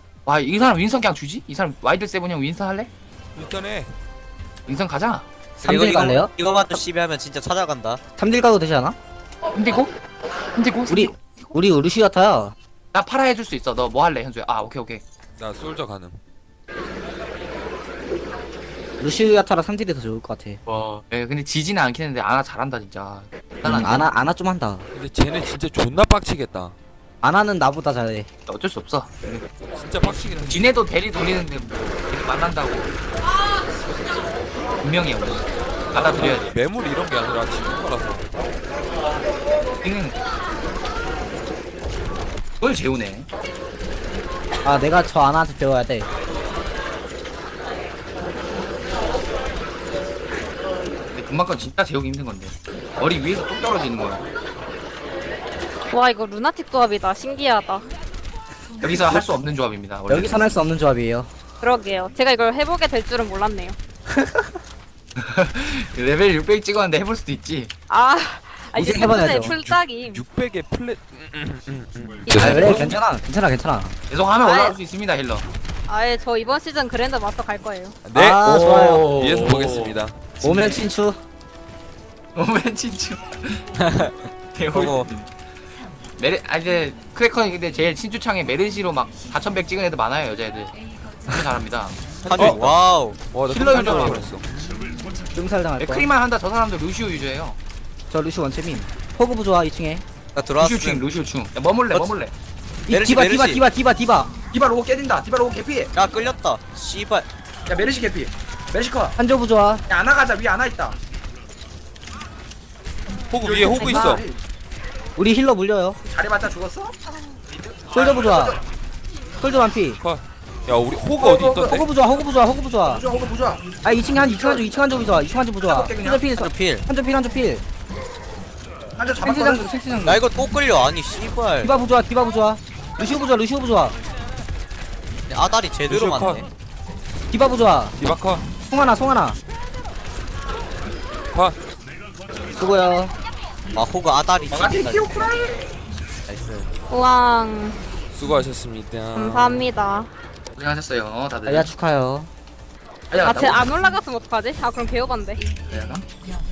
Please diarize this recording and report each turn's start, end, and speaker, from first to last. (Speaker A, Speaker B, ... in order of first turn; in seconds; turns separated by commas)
Speaker A: 0.2-2.9, Speaker B: 3.3-3.9, Speaker A: 4.7-5.3, Speaker C: 5.6-6.3, Speaker D: 5.6-8.0, Speaker C: 8.2-8.9, Speaker A: 9.5-9.9, Speaker A: 10.5-11.6, Speaker C: 10.9-12.5, Speaker A: 12.9-15.0, Speaker B: 15.4-16.2, Speaker C: 19.0-20.6, Speaker A: 20.6-24.1, Speaker C: 23.6-24.9, Speaker B: 24.9-26.7, Speaker C: 27.2-28.3, Speaker A: 28.5-29.4, Speaker B: 29.7-30.7, Speaker A: 30.0-32.9, Speaker A: 34.8-36.5, Speaker B: 35.9-38.3, Speaker A: 39.8-40.1, Speaker A: 42.6-43.3, Speaker C: 44.6-46.1, Speaker A: 51.1-54.2, Speaker E: 55.9-57.8, Speaker A: 58.8-60.4, Speaker C: 60.1-61.3, Speaker E: 61.6-63.8, Speaker C: 64.1-64.5, Speaker A: 65.2-67.7, Speaker E: 67.9-70.2, Speaker C: 68.7-69.6, Speaker B: 69.4-73.0, Speaker E: 72.2-73.0, Speaker C: 72.4-73.9, Speaker A: 74.1-75.5, Speaker E: 74.4-74.8, Speaker E: 75.9-78.0, Speaker B: 78.0-80.2, Speaker C: 78.1-79.1, Speaker A: 78.4-80.8, Speaker C: 80.4-81.2, Speaker A: 82.3-83.8, Speaker A: 84.5-85.3, Speaker D: 84.7-85.1, Speaker A: 86.2-90.7, Speaker A: 91.2-92.7, Speaker B: 92.2-94.4, Speaker D: 92.2-93.2, Speaker A: 93.5-94.3, Speaker C: 95.3-96.1, Speaker A: 95.8-97.6, Speaker C: 98.1-100.0, Speaker D: 100.3-101.0, Speaker A: 100.6-102.3, Speaker C: 102.9-104.3, Speaker D: 102.9-103.6, Speaker A: 104.5-105.9, Speaker D: 105.9-107.3, Speaker A: 107.7-109.2, Speaker C: 109.2-109.8, Speaker A: 109.9-111.0, Speaker B: 113.3-114.2, Speaker A: 113.4-114.3, Speaker C: 113.7-114.3, Speaker C: 115.2-116.0, Speaker A: 116.0-116.9, Speaker A: 117.9-118.6, Speaker C: 117.9-118.6, Speaker C: 119.4-120.0, Speaker B: 120.0-121.9, Speaker A: 121.2-121.8, Speaker C: 121.6-123.0, Speaker A: 122.8-123.6, Speaker C: 123.8-127.6, Speaker A: 124.2-124.6, Speaker A: 125.6-126.2, Speaker D: 126.3-126.8, Speaker A: 128.9-130.1, Speaker C: 129.2-130.2, Speaker D: 130.0-131.7, Speaker C: 131.6-133.9, Speaker D: 135.3-136.4, Speaker B: 135.9-136.5, Speaker C: 137.3-137.9, Speaker B: 138.0-138.4, Speaker C: 138.7-139.4, Speaker C: 142.5-143.1, Speaker D: 143.7-145.0, Speaker A: 144.5-145.7, Speaker D: 146.3-146.7, Speaker E: 146.9-147.8, Speaker B: 148.1-149.7, Speaker E: 149.1-150.1, Speaker A: 150.5-151.7, Speaker C: 151.4-152.3, Speaker A: 153.1-153.7, Speaker E: 153.2-155.4, Speaker A: 155.6-156.0